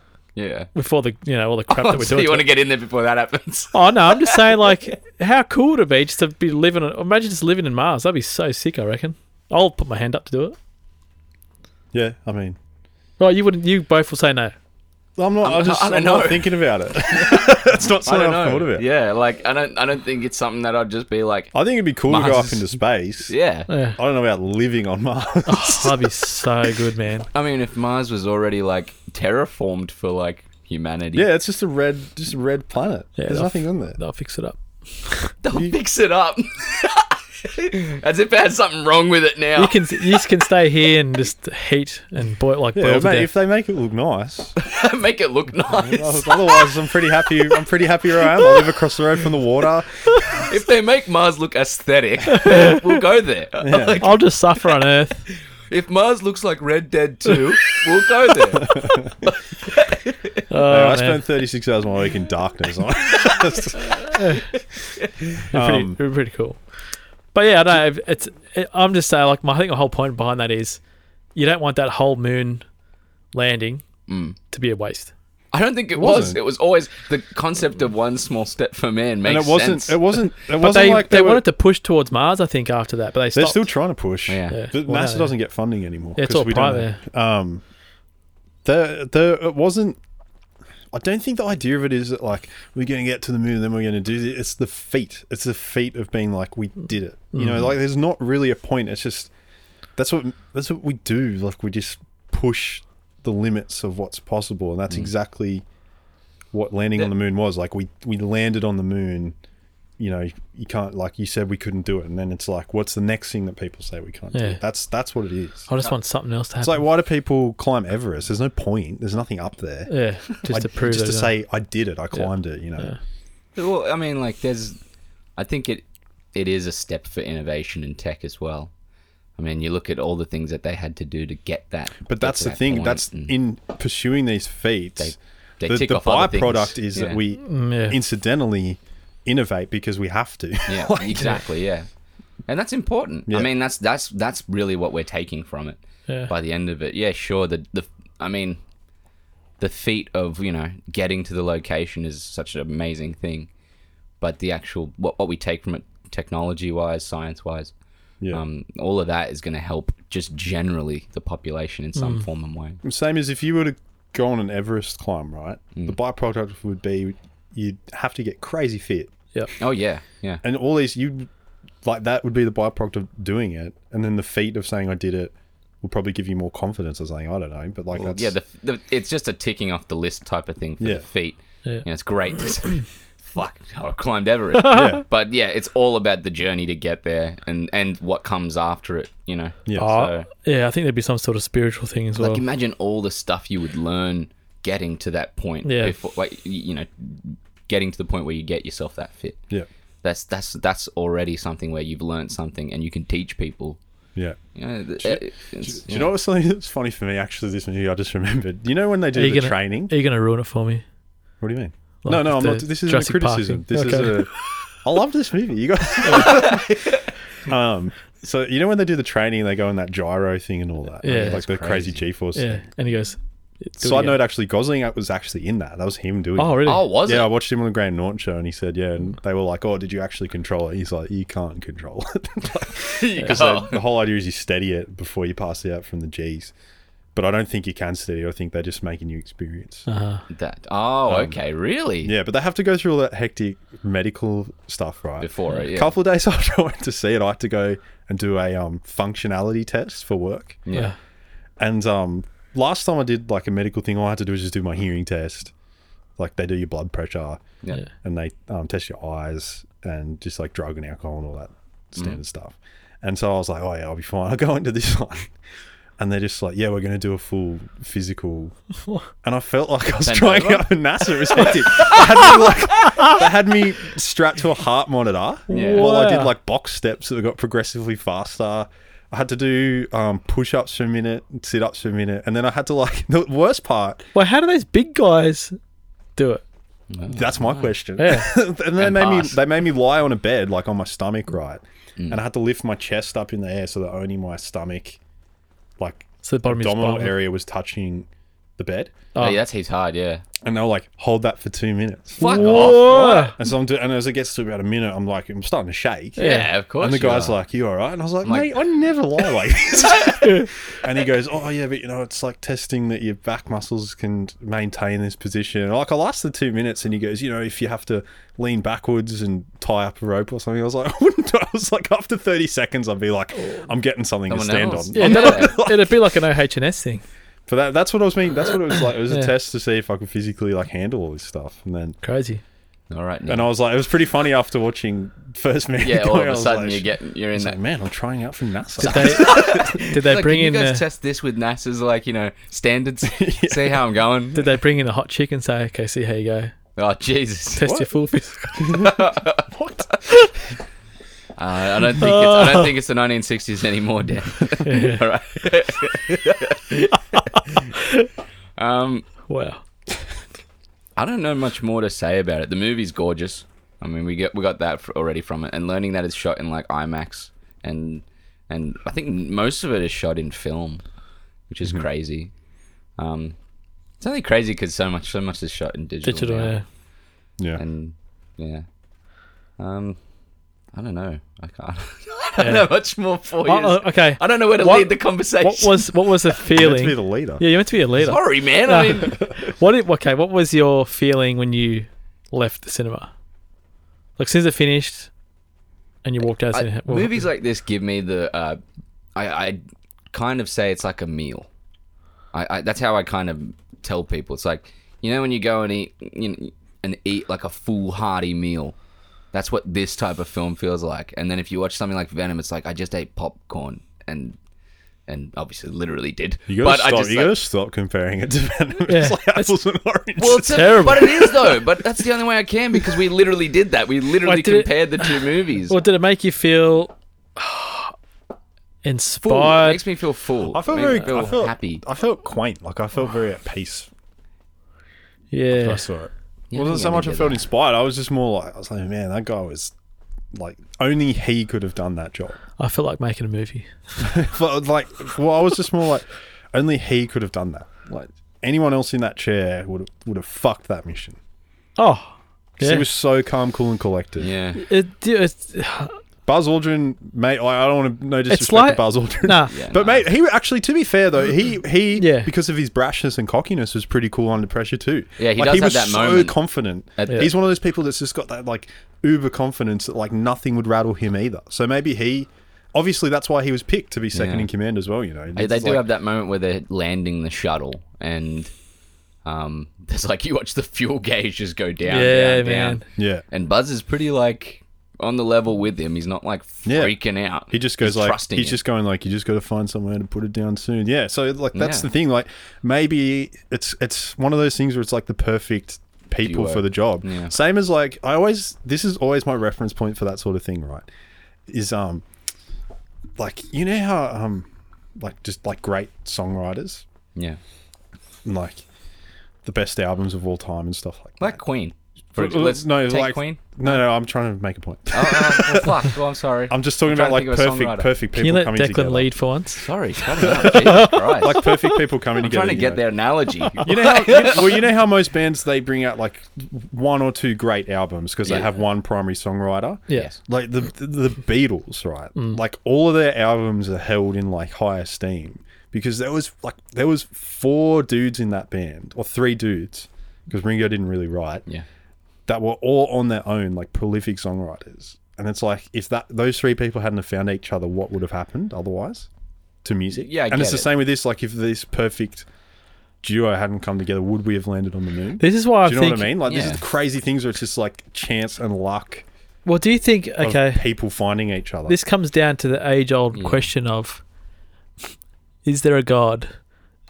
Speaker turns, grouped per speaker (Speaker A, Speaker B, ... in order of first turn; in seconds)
Speaker A: 0.3-0.7, 1.7-4.8, 15.4-21.5, 22.1-22.7, 23.3-23.7, 27.3-31.3, 35.4-40.2, 44.6-47.7, 48.2-48.8, 50.3-54.8, 55.6-60.4, 63.1-65.4, 74.1-74.4, 75.5-80.0, 84.3-84.6, 123.5-124.8, 125.4-128.7, 129.4-133.3, 135.0-137.2, 140.7-141.9, 142.5-148.6, 149.6-153.5, 154.2-157.7, 158.3-162.8, 169.6-170.4, 177.9-190.3, 192.2-199.4, 200.0-203.8, 204.5-206.1, 216.1-217.1, 221.0-222.0, 226.6-227.3, 232.8-233.8, 240.3-242.1, 245.2-245.9, 250.7-250.9, 270.0-272.5, 275.5-275.9, 286.9-287.7, 288.8-289.4, 299.1-300.2, 302.2-303.4, 306.2-307.4, 308.2-308.6, 324.3-325.6, 332.9-333.5, 335.8-337.6, 338.8-344.5, 346.8-347.6, 348.6-349.5, 351.4-357.7, 358.6-359.1, 360.9-370.8, 371.5-372.3, 373.0-373.4, 374.0-376.6, 377.6-378.6, 379.6-380.0, 380.7-386.0, 388.0-389.2, 396.5-398.6, 399.1-399.6, 400.1-401.5, 402.3-408.7, 409.3-414.4, 415.1-417.3, 420.2-425.8, 429.2-431.8, 436.5-437.4, 454.2-454.6, 459.5-460.0, 465.2-466.4, 466.9-467.3, 474.1-474.5, 475.3-478.5, 479.2-488.6, 491.5-491.9, 496.2-497.3, 511.2-513.6, 514.9-517.9, 519.6-521.5, 522.2-524.6, 549.9-550.7, 556.2-556.6, 563.1-563.5
Speaker B: 0.7-2.5, 3.7-10.6, 13.2-14.5, 23.7-24.0, 25.4-27.3, 33.2-35.3, 39.5-43.3, 52.3-52.9, 54.0-55.3, 60.5-61.2, 64.1-64.5, 65.5-66.6, 67.3-70.8, 71.3-72.6, 73.3-73.8, 74.5-75.1, 80.5-83.7, 84.5-85.3, 86.2-87.0, 97.3-97.7, 114.3-114.6, 115.7-116.8, 119.9-121.3, 137.3-138.0, 162.0-162.2, 184.6-185.0, 189.8-192.4, 195.6-195.9, 209.1-210.8, 212.0-214.2, 216.0-216.3, 221.0-221.4, 222.3-224.2, 226.4-226.8, 239.9-240.2, 275.5-276.3, 284.1-285.6, 286.1-286.4, 288.0-288.3, 296.2-297.1, 302.2-303.3, 306.2-306.5, 324.9-327.0, 332.0-332.4, 338.8-340.8, 344.3-346.5, 347.5-348.8, 352.0-352.7, 354.6-355.0, 357.3-358.1, 359.3-359.6, 376.0-376.6, 382.4-382.7, 383.4-393.1, 394.2-395.1, 396.0-397.2, 418.9-419.5, 420.5-421.1, 424.2-425.2, 425.7-427.9, 428.8-429.8, 435.3-435.8, 442.6-443.7, 451.8-452.9, 454.6-456.0, 458.3-459.5, 462.0-462.3, 481.9-482.8, 518.1-519.7, 520.4-521.5, 555.2-556.3, 559.5-560.6, 561.7-564.0, 565.4-566.3
Speaker C: 11.9-12.6, 15.2-18.8, 21.5-23.3, 23.9-26.1, 31.1-34.0, 42.7-44.5, 45.7-50.4, 53.6-54.0, 58.5-59.1, 60.6-64.3, 65.4-66.0, 76.0-76.4, 79.2-81.4, 83.3-87.6, 88.6-90.0, 90.9-99.3, 100.0-105.6, 106.5-109.3, 110.0-115.7, 116.6-119.9, 120.4-122.9, 132.1-135.1, 135.7-141.4, 162.8-169.1, 170.4-171.3, 171.8-178.3, 184.7-185.0, 205.0-209.9, 211.4-216.7, 217.4-222.7, 223.8-236.5, 237.1-239.8, 241.1-241.4, 242.0-250.6, 251.6-255.5, 256.2-257.4, 258.0-265.3, 266.0-268.5, 269.2-284.0, 287.1-295.0, 295.8-299.1, 300.4-306.2, 306.8-326.1, 327.5-332.0, 333.3-339.8, 343.0-343.8, 347.6-347.9, 348.6-348.9, 349.5-350.0, 386.5-387.4, 416.5-421.8, 422.8-423.0, 430.5-433.9, 435.5-439.7, 440.3-442.4, 444.0-451.2, 452.6-454.3, 456.2-475.9, 483.0-483.2, 486.6-486.9, 487.5-500.9, 501.5-502.0, 503.2-504.5, 505.0-506.8, 508.2-508.6, 509.4-511.4, 512.2-515.9, 516.5-519.1, 520.2-522.8, 523.6-541.4, 542.3-549.1, 549.6-552.3, 553.0-559.0, 560.2-561.8